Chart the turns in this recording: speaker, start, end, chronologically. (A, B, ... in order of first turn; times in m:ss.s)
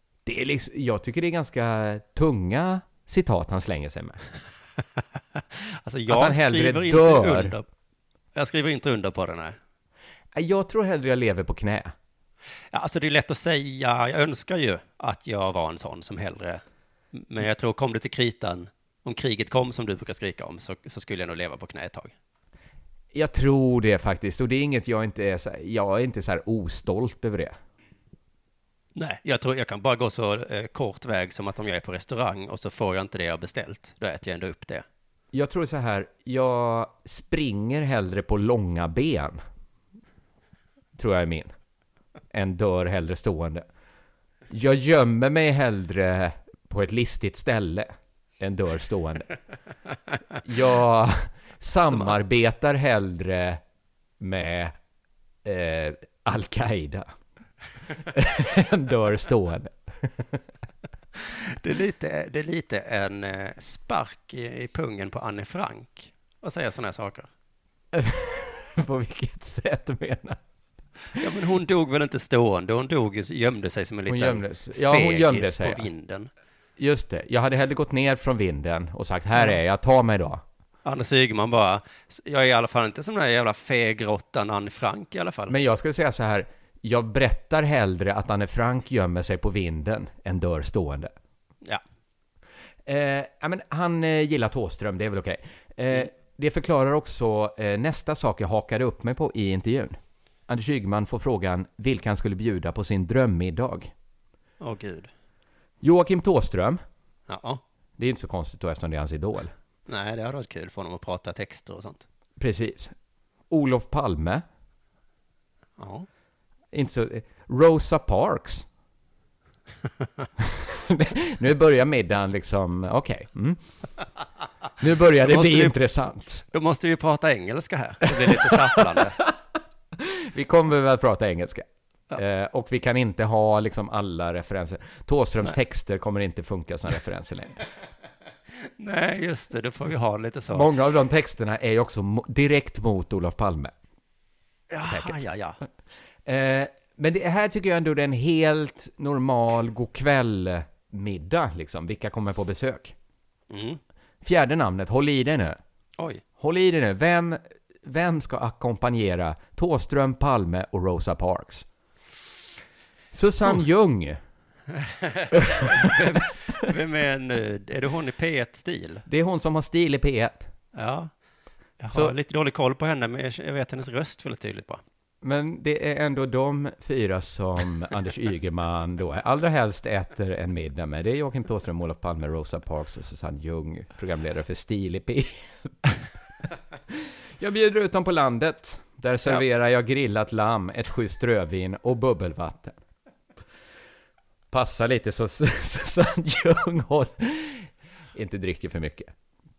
0:00.2-0:04.2 A
0:05.8-0:07.6 B
0:06.1-0:07.5 A
0:08.3-0:09.6 B
0:10.3-0:11.9 A
0:12.7-0:16.6 B
0:17.1-0:22.1 B
0:23.1-0:27.5 A
0:29.0-0:34.8 B
0:35.3-0:39.4 A
0:41.0-0:41.5 A
0:42.3-0:43.6 A
0:44.5-0:49.3 A
0:50.4-0:53.6 A
0:51.9-0:52.1 B
0:54.2-0:54.7 A
0:55.4-0:57.1 A
0:58.0-1:00.4 A
1:01.3-1:07.3 B
1:07.9-1:10.4 A
1:11.2-1:16.3 B
1:14.1-1:15.8 A
1:16.8-1:20.4 A
1:20.8-1:25.5 B
1:25.5-1:31.1 A
1:32.8-1:43.9 A
1:44.6-1:45.1 B
1:45.8-1:46.8 A
1:47.3-1:47.6 B
1:48.0-1:49.5 A
1:49.9-1:52.0 B
1:52.4-1:52.9 A
1:53.5-1:54.4 A
1:55.8-1:56.1 B
1:56.7-1:58.6 A
2:00.4-2:03.6 A
2:04.8-2:06.4 A
2:05.2-2:05.7 B
2:06.5-2:09.2 B
2:08.2-2:09.4 A
2:10.0-2:17.6 A
2:18.8-2:20.7 B
2:20.5-2:23.7 A
2:24.7-2:25.6 B
2:24.8-2:25.2 A
2:26.2-2:32.9 A
2:33.5-2:33.8 B
2:34.2-2:35.6 A
2:36.4-2:41.6 A
2:43.1-2:44.2 A
2:44.8-2:49.0 B
2:45.6-2:46.0 A
2:49.1-2:50.5 A
2:50.7-2:51.1 B
2:51.8-2:54.8 B
2:55.2-3:05.7 A
3:07.4-3:12.8 A
3:14.5-3:19.1 A